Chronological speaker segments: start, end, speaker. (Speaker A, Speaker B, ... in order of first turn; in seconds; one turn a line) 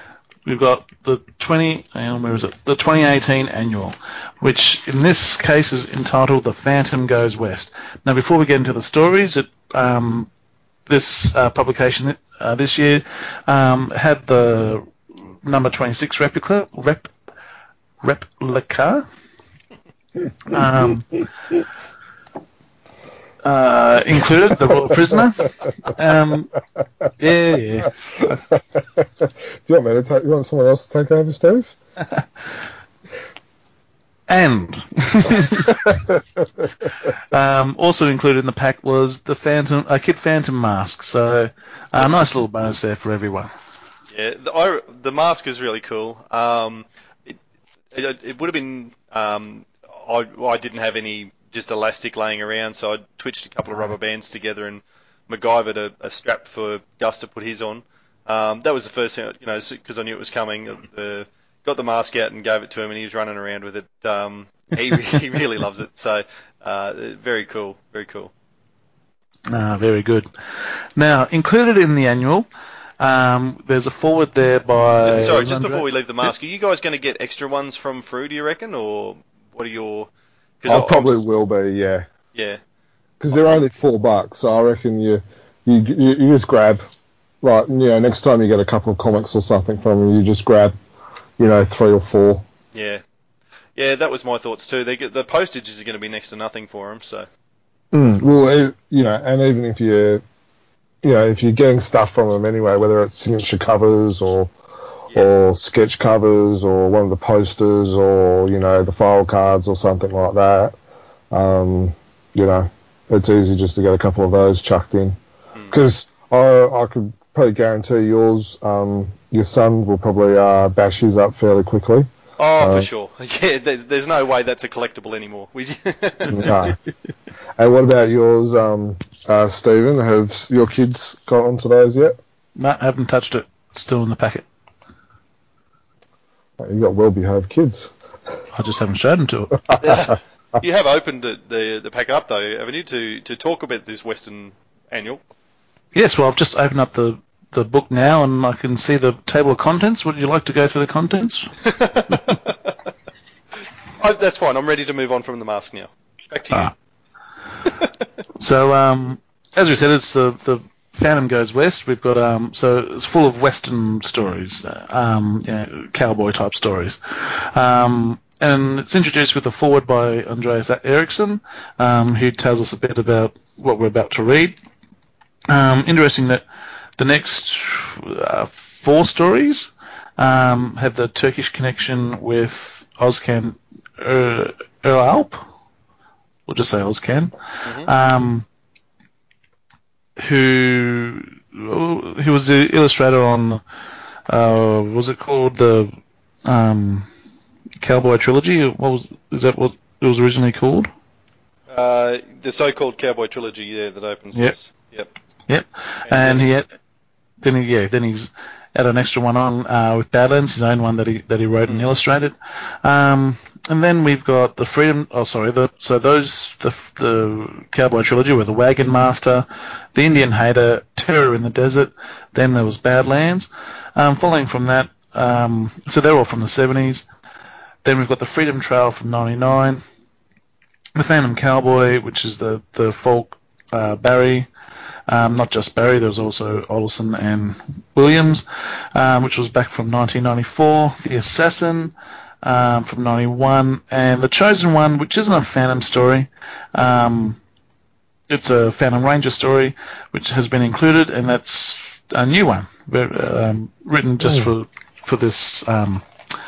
Speaker A: 0.5-10.3
Speaker A: 10.9-14.9
Speaker A: 15.4-17.1
Speaker A: 18.0-19.1
Speaker A: 20.5-21.2
Speaker A: 23.4-26.5
Speaker A: 27.2-28.4
Speaker B: 28.5-31.8
Speaker A: 34.3-35.8
Speaker A: 37.2-43.5
Speaker C: 44.1-47.4
Speaker C: 47.9-68.3
Speaker A: 69.5-72.5
Speaker A: 73.0-75.9
Speaker C: 75.0-80.1
Speaker C: 80.6-81.2
Speaker B: 80.7-82.1
Speaker C: 82.3-82.6
Speaker B: 83.2-86.8
Speaker B: 87.4-90.7
Speaker B: 91.4-92.5
Speaker C: 92.7-93.0
Speaker C: 93.8-97.3
Speaker B: 97.9-100.2
Speaker B: 101.0-104.5
Speaker B: 105.1-110.7
Speaker B: 111.3-115.2
Speaker B: 115.7-122.9
Speaker C: 122.4-126.7
Speaker B: 126.3-126.8
Speaker B: 127.6-132.2
Speaker A: 132.6-134.4
Speaker B: 136.6-137.9
Speaker A: 138.5-139.6
Speaker C: 139.8-145.2
Speaker A: 145.9-151.5
Speaker C: 151.7-152.7
Speaker C: 154.0-156.7
Speaker A: 158.4-174.6
Speaker A: 175.5-176.4
Speaker A: 177.0-185.5
Speaker A: 186.5-188.5
Speaker A: 190.2-193.6
Speaker A: 194.3-195.9
Speaker A: 196.4-197.1
Speaker A: 197.8-200.9
Speaker C: 201.7-205.1
Speaker A: 205.5-206.7
Speaker C: 206.1-206.5
Speaker A: 207.4-227.1
Speaker A: 227.8-229.8
Speaker A: 230.9-234.5
Speaker A: 235.1-247.4
Speaker A: 248.3-256.1
Speaker B: 254.2-254.5